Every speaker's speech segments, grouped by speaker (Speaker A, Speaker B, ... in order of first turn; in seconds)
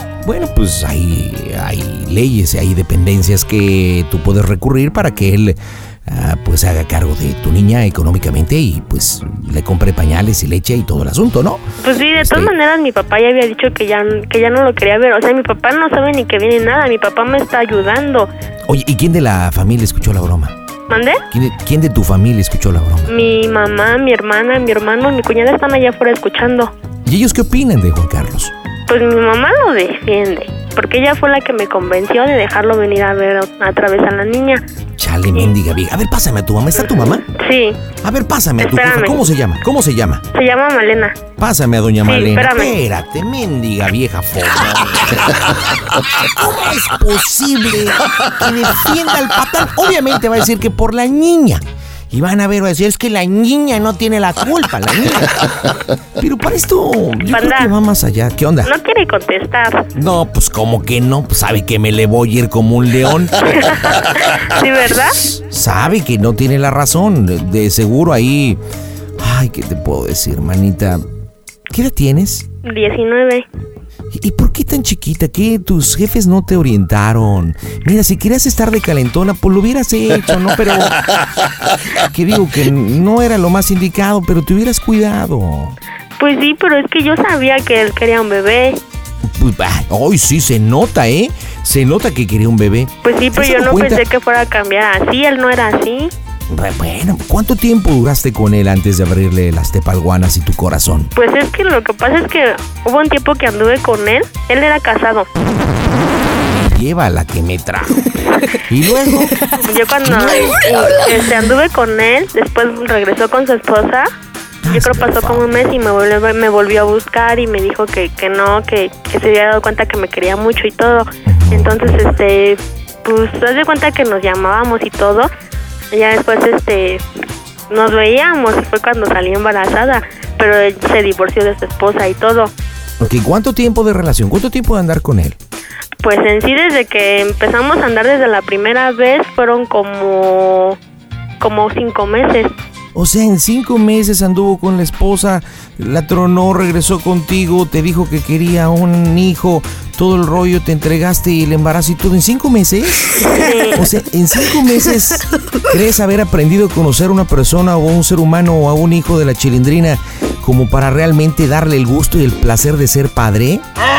Speaker A: 0.2-11.6, 12.2-12.5, 18.6-20.5, 21.3-23.1, 27.1-28.5, 35.0-37.2, 38.0-40.2, 41.4-45.4, 46.4-55.5, 56.2-58.7, 59.9-63.3, 65.2-68.6, 69.2-71.0, 71.7-72.4, 74.1-80.9, 82.1-85.8, 89.2-94.0, 96.5-101.1, 106.5-108.0, 108.7-109.3, 110.0-110.5, 114.6-115.5, 121.2-122.0, 133.0-135.4, 142.9-153.2, 153.8-163.6
Speaker B: 11.8-18.3, 20.9-21.2, 23.1-26.7, 28.9-34.6, 36.8-37.8, 38.6-39.2, 40.3-41.2, 42.0-42.7, 57.3-57.7, 58.6-59.9, 63.6-65.2, 72.6-73.5, 86.2-88.8, 93.0-96.1, 101.1-105.3, 109.6-114.1, 114.7-125.3, 125.9-127.0, 127.7-132.5, 136.0-140.8, 141.4-142.5, 153.4-153.8